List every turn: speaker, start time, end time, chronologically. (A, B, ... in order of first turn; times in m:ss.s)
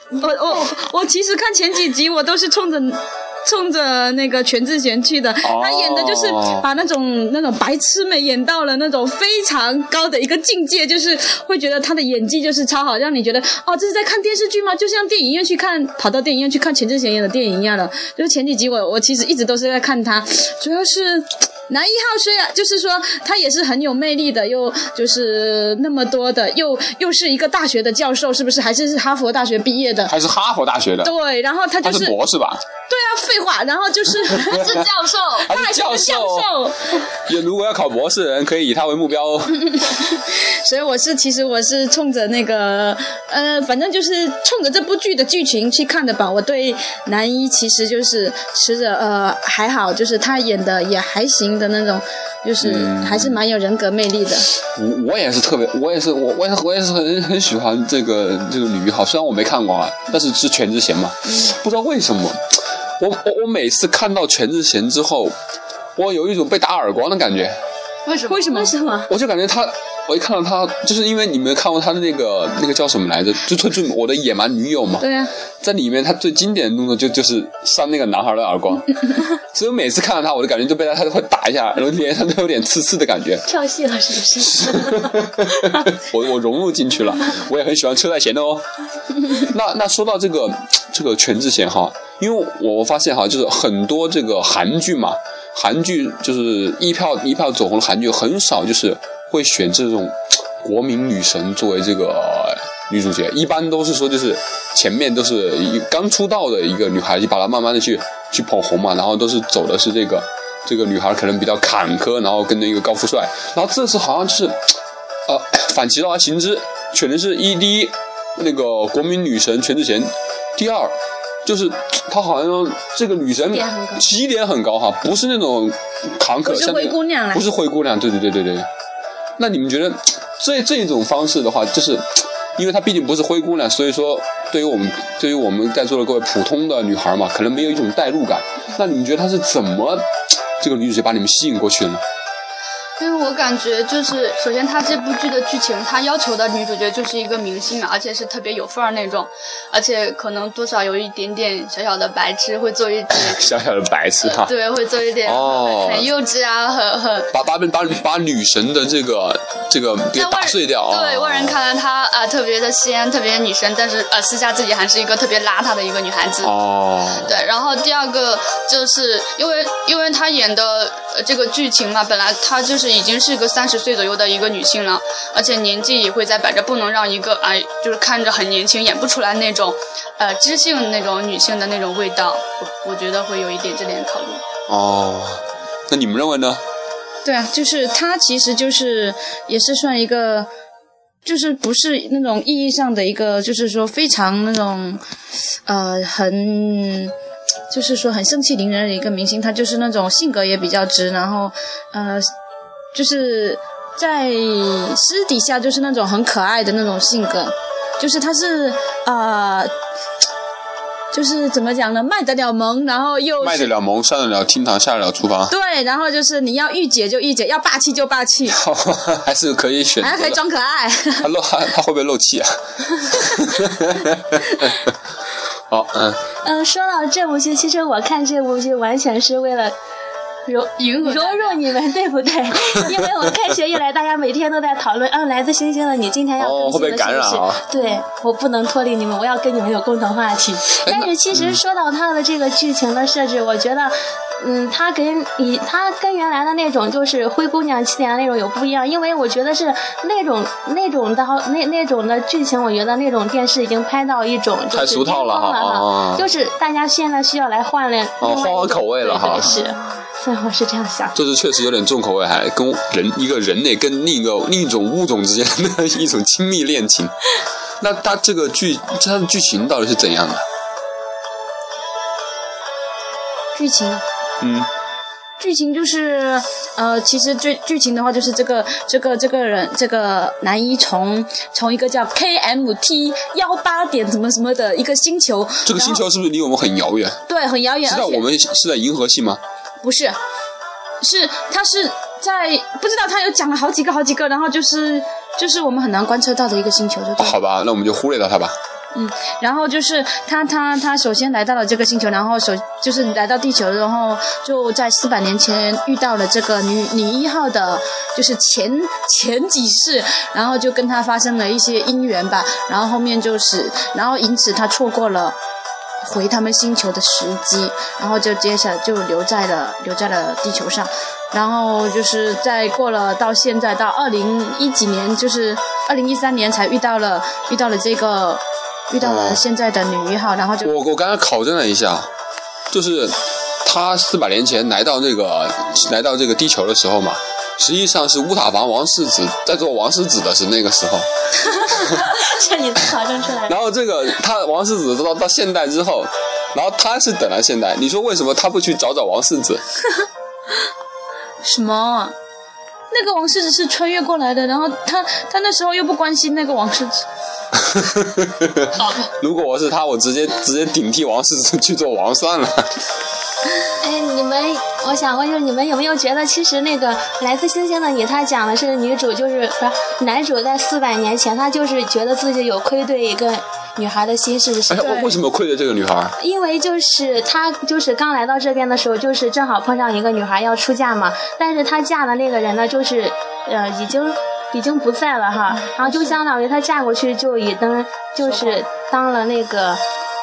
0:00.2-0:30.1 A
0:05.4-0:06.7 B
0:30.1-0:31.1 B
0:31.0-0:32.2 A
0:31.8-0:32.6 B
0:32.9-0:34.7 A
0:34.3-0:34.9 B
0:34.5-0:35.5 C
0:35.4-0:36.5 B
0:35.5-0:37.0 A
0:37.1-0:39.7 B
0:39.6-0:54.5 A
0:52.6-0:53.4 B
0:54.6-1:05.4 B
1:06.0-1:07.6 B
1:08.0-1:08.6 C
1:08.3-1:08.7 A
1:08.3-1:09.1 D
1:09.1-1:15.0 B
1:15.0-1:15.3 A
1:15.6-1:23.5 B
1:23.5-1:25.2 D
1:24.4-1:28.6 B
1:29.2-1:54.7 B
1:55.3-2:08.7 B
2:03.5-2:04.1 D
2:06.4-2:07.4 A
2:09.4-2:20.0 B
2:20.6-2:22.0 B
2:23.0-2:33.5 C
2:33.1-2:34.5 B
2:34.2-2:37.3 C
2:35.2-2:36.1 B
2:37.3-2:41.6 B
2:40.1-2:46.5 C
2:46.4-2:47.3 B
2:47.2-3:04.4 C
3:04.7-3:06.6 B
3:07.2-3:10.5 A
3:11.2-3:15.0 A
3:15.6-3:17.1 A
3:17.7-3:22.3 A
3:22.9-3:29.7 A
3:31.1-3:33.7 A
3:33.4-3:35.5 B
3:35.5-3:38.6 A
3:38.5-3:40.4 B
3:40.0-3:41.3 A
3:41.2-3:44.9 B
3:45.7-3:46.2 B
3:46.4-3:49.7 D
3:50.5-4:21.2 D
3:50.8-3:51.6 C
3:52.7-3:53.0 B
3:56.4-3:57.6 B
4:00.8-4:01.6 B
4:14.7-4:16.3 B
4:18.2-4:19.6 B
4:21.1-4:27.1 B
4:27.8-4:30.4 B
4:33.5-4:34.0 A
4:34.4-4:34.7 B
4:35.4-4:46.0 A
4:45.6-4:47.2 B
4:47.3-4:48.2 A
4:47.8-4:49.4 B
4:49.8-4:50.2 A
4:51.0-4:57.4 A
4:57.2-4:58.6 B
4:58.9-5:15.4 A
5:16.0-5:30.7 A
5:29.0-5:29.4 B
5:30.6-5:32.1 B
5:32.7-5:41.0 B
5:41.5-5:43.6 D
5:41.7-5:42.1 B
5:43.4-5:49.6 B
5:51.4-5:52.1 A
5:52.9-5:57.0 A
5:57.5-6:02.7 B
5:58.8-5:59.1 C
6:03.8-6:15.0 D
6:14.7-6:16.2 B
6:14.8-6:15.1 A
6:16.2-6:29.8 D